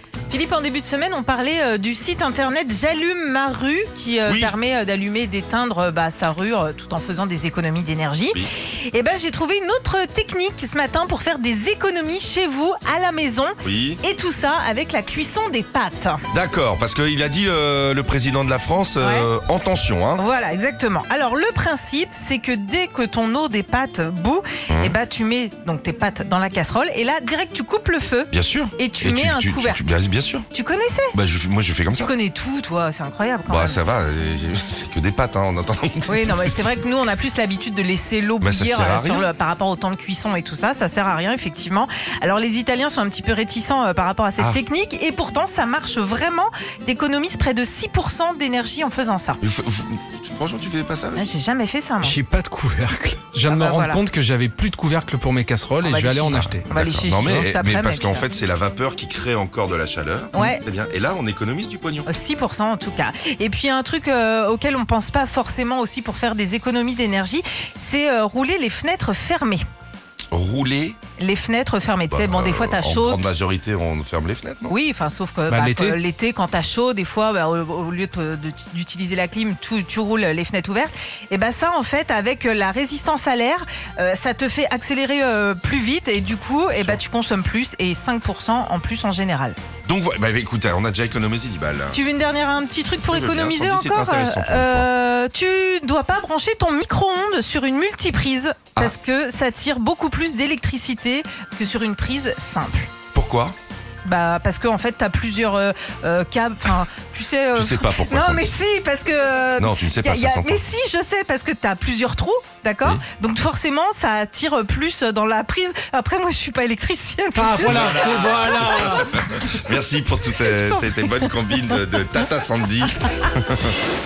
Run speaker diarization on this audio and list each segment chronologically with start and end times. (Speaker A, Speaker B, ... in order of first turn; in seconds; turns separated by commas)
Speaker A: 0.3-16.2, Speaker B: 4.2-4.5, Speaker B: 13.6-14.0, Speaker B: 16.3-20.2, Speaker A: 19.0-19.3, Speaker A: 20.2-29.8, Speaker B: 24.7-24.9, Speaker B: 28.3-30.4, Speaker A: 30.5-31.1, Speaker B: 31.1-32.1, Speaker A: 31.9-33.8, Speaker B: 33.5-36.7, Speaker A: 36.0-49.4, Speaker B: 38.4-39.2, Speaker B: 49.4-51.2, Speaker A: 51.1-52.2, Speaker C: 52.0-56.7, Speaker A: 53.4-54.0, Speaker A: 55.8-58.3, Speaker B: 56.7-62.1, Speaker A: 60.3-60.6, Speaker A: 62.0-69.6, Speaker B: 70.3-71.0, Speaker A: 71.2-73.2, Speaker B: 72.1-74.7, Speaker A: 74.7-89.6, Speaker C: 75.5-76.0, Speaker B: 86.7-87.0, Speaker B: 89.8-92.0, Speaker A: 91.9-102.9, Speaker B: 93.0-94.9, Speaker B: 103.1-103.5, Speaker A: 104.0-118.0, Speaker B: 107.5-108.5, Speaker B: 109.6-110.6, Speaker C: 117.3-119.4, Speaker B: 117.6-123.7, Speaker A: 120.3-121.8